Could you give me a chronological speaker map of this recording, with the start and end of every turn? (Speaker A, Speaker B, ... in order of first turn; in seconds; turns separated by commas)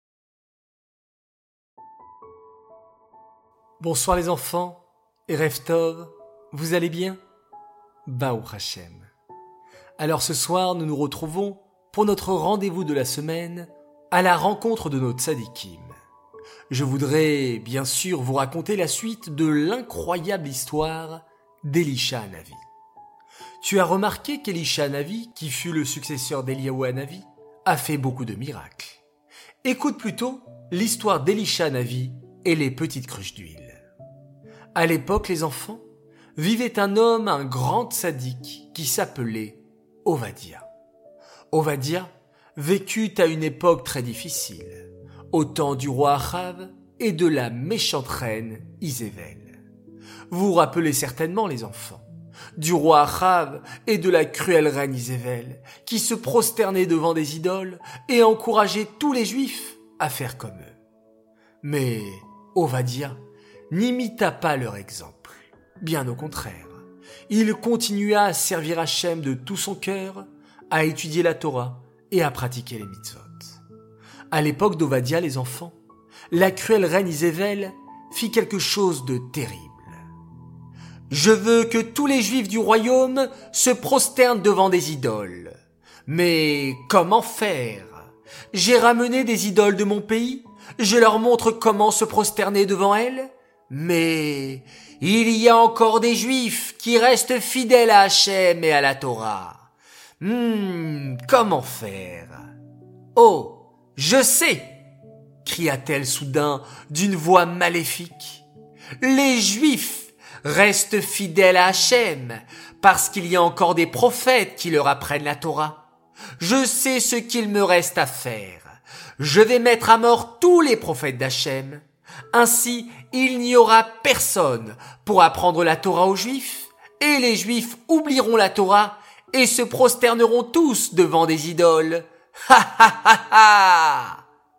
Speaker A: 3.8-7.2, Speaker A: 8.1-9.1, Speaker A: 10.0-16.0, Speaker A: 16.7-22.6, Speaker A: 23.6-29.0, Speaker A: 29.6-33.8, Speaker A: 34.8-35.8, Speaker A: 36.4-40.7, Speaker A: 41.5-49.6, Speaker A: 50.3-60.8, Speaker A: 61.6-73.6, Speaker A: 74.3-75.8, Speaker A: 76.3-80.0, Speaker A: 81.1-102.5, Speaker A: 103.2-104.8, Speaker A: 105.4-108.5, Speaker A: 109.0-115.8, Speaker A: 116.4-134.2